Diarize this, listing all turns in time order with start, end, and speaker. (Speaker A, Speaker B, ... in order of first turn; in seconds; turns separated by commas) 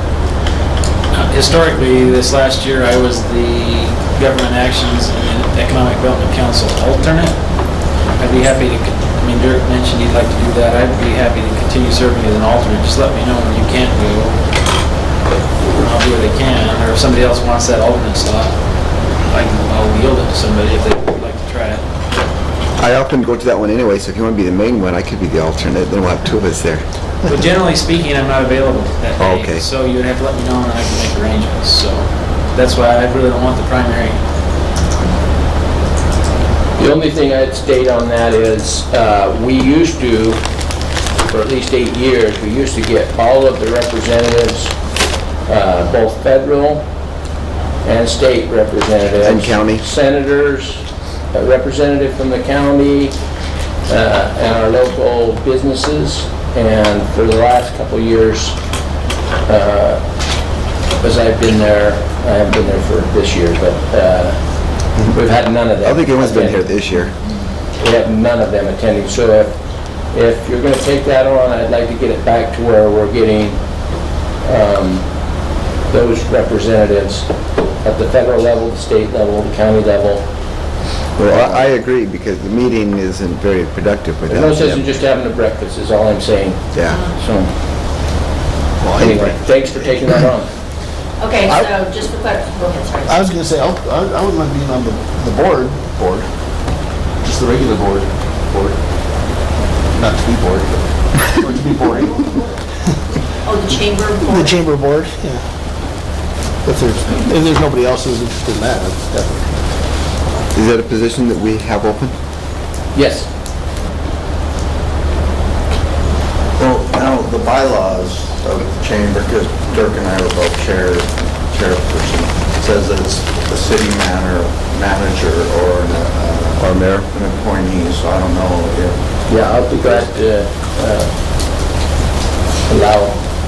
Speaker A: 1.1-7.4, Speaker A: 8.2-14.4, Speaker A: 15.7-18.6, Speaker A: 19.2-21.8, Speaker B: 22.8-26.8, Speaker A: 27.2-34.2, Speaker B: 29.2-29.6, Speaker C: 36.8-40.4, Speaker C: 41.3-44.7, Speaker C: 45.5-46.9, Speaker C: 47.8-53.1, Speaker B: 49.2-49.8, Speaker C: 53.9-58.6, Speaker C: 59.5-60.0, Speaker C: 61.0-66.6, Speaker B: 65.8-67.1, Speaker C: 67.8-69.5, Speaker C: 70.1-73.6, Speaker C: 74.4-75.1, Speaker C: 75.9-80.3, Speaker B: 81.2-84.8, Speaker C: 81.3-81.7, Speaker C: 84.3-87.5, Speaker B: 86.7-87.0, Speaker D: 86.9-87.2, Speaker E: 88.8-89.4, Speaker C: 89.0-90.5, Speaker D: 91.2-93.2, Speaker E: 93.0-96.3, Speaker E: 97.2-98.8, Speaker E: 99.9-102.6, Speaker D: 103.4-104.6, Speaker E: 104.2-105.4, Speaker E: 106.6-109.7, Speaker B: 110.5-112.1, Speaker C: 112.9-113.3, Speaker F: 116.6-130.0, Speaker B: 126.6-127.1, Speaker C: 129.3-131.1, Speaker C: 132.7-133.2